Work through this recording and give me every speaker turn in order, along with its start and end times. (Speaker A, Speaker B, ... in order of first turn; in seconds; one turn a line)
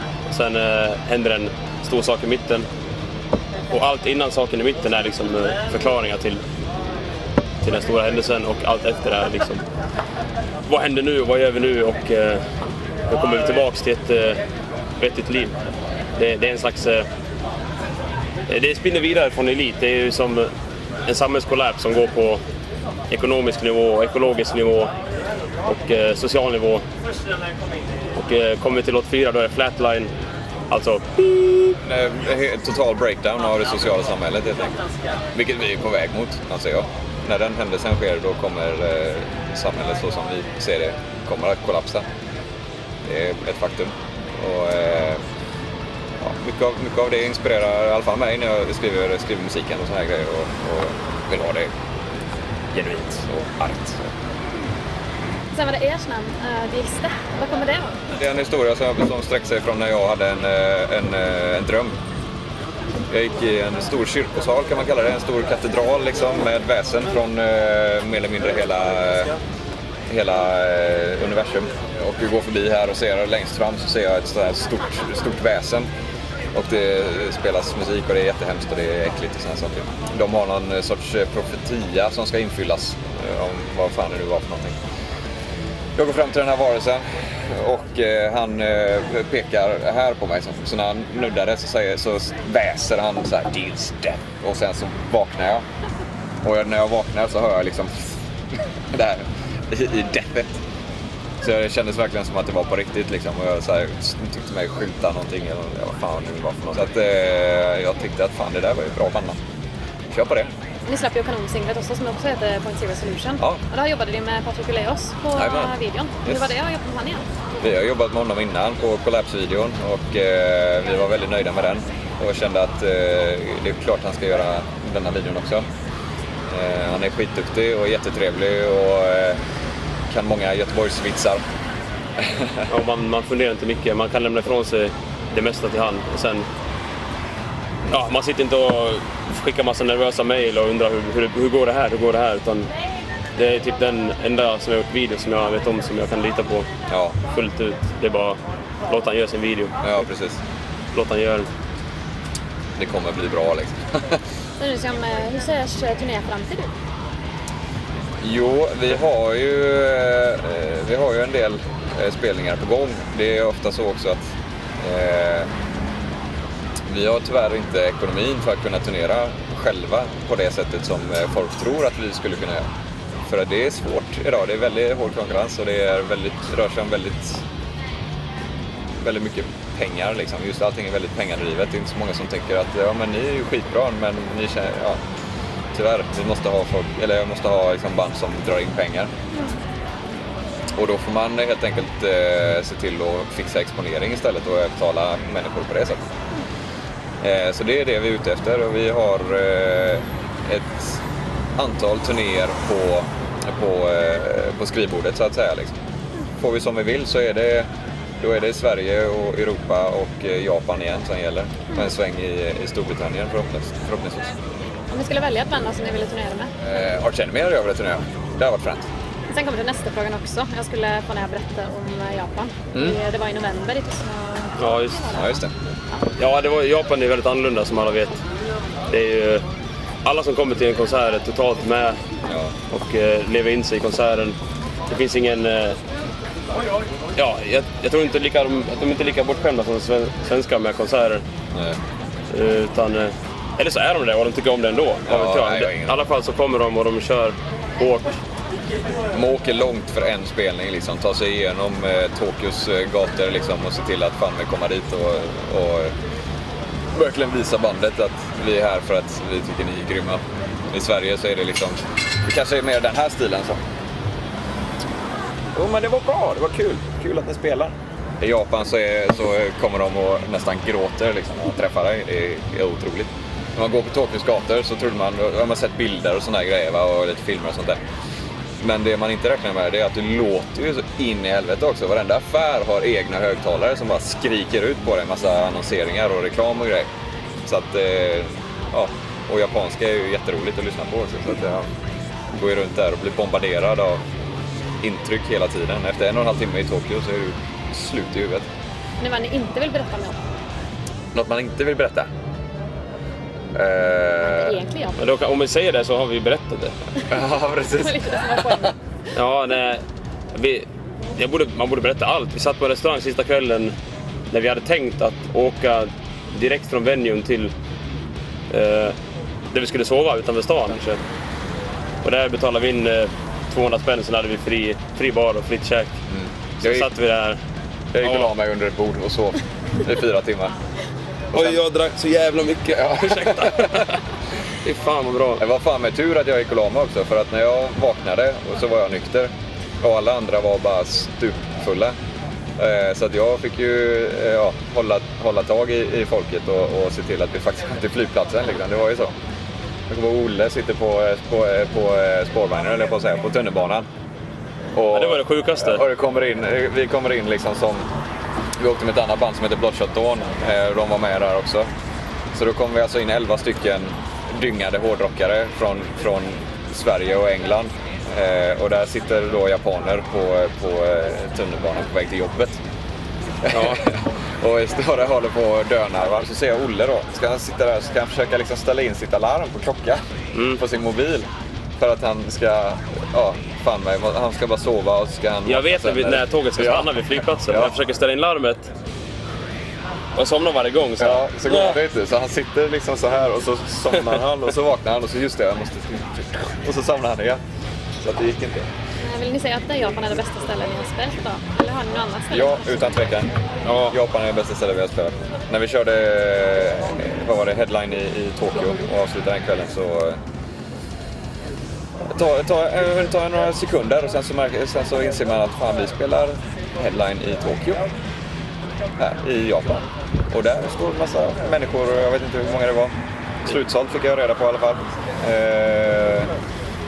Speaker A: 0.3-2.7
Speaker A: 3.7-6.4
Speaker A: 7.6-9.6
Speaker A: 10.7-12.5
Speaker A: 13.1-14.4
Speaker A: 15.0-15.5
Speaker A: 16.1-17.1
Speaker A: 18.5-20.5
Speaker A: 21.1-22.4
Speaker A: 23.1-24.9
Speaker A: 25.6-26.8
Speaker A: 28.1-30.1
Speaker A: 30.7-31.8
Speaker B: 31.8-34.8
Speaker B: 35.3-42.0
Speaker B: 43.0-45.2
Speaker B: 46.2-51.7
Speaker B: 52.7-54.1
Speaker C: 55.5-57.9
Speaker B: 58.2-62.0
Speaker B: 63.1-69.3
Speaker B: 70.1-75.9
Speaker B: 76.5-84.8
Speaker B: 86.0-95.6
Speaker B: 96.4-98.2
Speaker B: 98.9-100.6
Speaker B: 101.4-109.4
Speaker B: 110.1-110.5
Speaker C: 110.8-117.2
Speaker B: 115.3-115.7
Speaker B: 116.2-116.5
Speaker B: 117.6-125.6
Speaker B: 126.5-129.4
Speaker B: 130.1-131.4
Speaker B: 132.2-132.7
Speaker A: 132.7-136.5
Speaker A: 137.9-142.7
Speaker A: 143.3-146.7
Speaker B: 146.9-147.2
Speaker A: 147.2-149.9
Speaker B: 149.8-150.4
Speaker A: 150.9-151.5
Speaker B: 152.8-154.2
Speaker C: 154.6-156.7
Speaker B: 158.2-165.5
Speaker B: 166.9-172.6
Speaker B: 173.2-177.4
Speaker B: 179.0-185.0
Speaker B: 185.7-189.1
Speaker B: 190.8-196.0
Speaker B: 197.2-201.0
Speaker B: 201.6-205.8
Speaker B: 206.4-207.7
Speaker B: 208.2-214.3
Speaker C: 214.9-216.5
Speaker B: 216.6-218.9
Speaker C: 219.3-225.4
Speaker A: 224.6-225.1
Speaker B: 225.1-225.5
Speaker A: 226.2-228.2
Speaker A: 228.9-229.4
Speaker A: 230.0-232.0
Speaker B: 232.2-232.5
Speaker A: 232.7-234.4
Speaker A: 234.9-235.8
Speaker A: 237.2-241.2
Speaker B: 241.5-241.8
Speaker A: 242.3-248.2
Speaker B: 245.1-246.0
Speaker B: 249.1-255.9
Speaker B: 256.9-263.6
Speaker B: 265.5-277.8
Speaker B: 278.6-286.9
Speaker B: 287.4-291.6
Speaker B: 292.3-294.0
Speaker B: 294.8-298.4
Speaker C: 299.0-300.2
Speaker B: 301.1-302.1
Speaker B: 303.5-304.6
Speaker C: 304.2-305.0
Speaker A: 305.0-306.8
Speaker B: 307.1-308.7
Speaker C: 307.7-308.7
Speaker A: 309.1-313.7
Speaker A: 314.3-317.5
Speaker A: 318.5-318.9
Speaker A: 319.5-321.0
Speaker A: 322.0-326.0
Speaker B: 326.1-326.9
Speaker A: 326.6-327.4
Speaker B: 327.9-330.5
Speaker A: 328.0-328.3
Speaker A: 331.3-334.0
Speaker B: 332.8-333.8
Speaker A: 334.6-335.4
Speaker B: 335.4-341.9
Speaker B: 342.6-349.1
Speaker B: 349.9-353.9
Speaker B: 354.7-357.9
Speaker A: 354.9-355.8
Speaker B: 358.6-361.7
Speaker B: 362.3-372.6
Speaker B: 373.4-387.0
Speaker A: 373.5-373.8
Speaker A: 380.3-380.6
Speaker A: 385.4-388.7
Speaker B: 387.5-387.7
Speaker A: 390.1-391.8
Speaker B: 391.0-397.4
Speaker B: 398.0-398.7
Speaker C: 399.0-403.0
Speaker B: 402.3-403.3
Speaker A: 403.6-403.9
Speaker B: 403.9-410.2
Speaker B: 412.1-417.8
Speaker B: 419.0-422.9
Speaker B: 423.4-426.3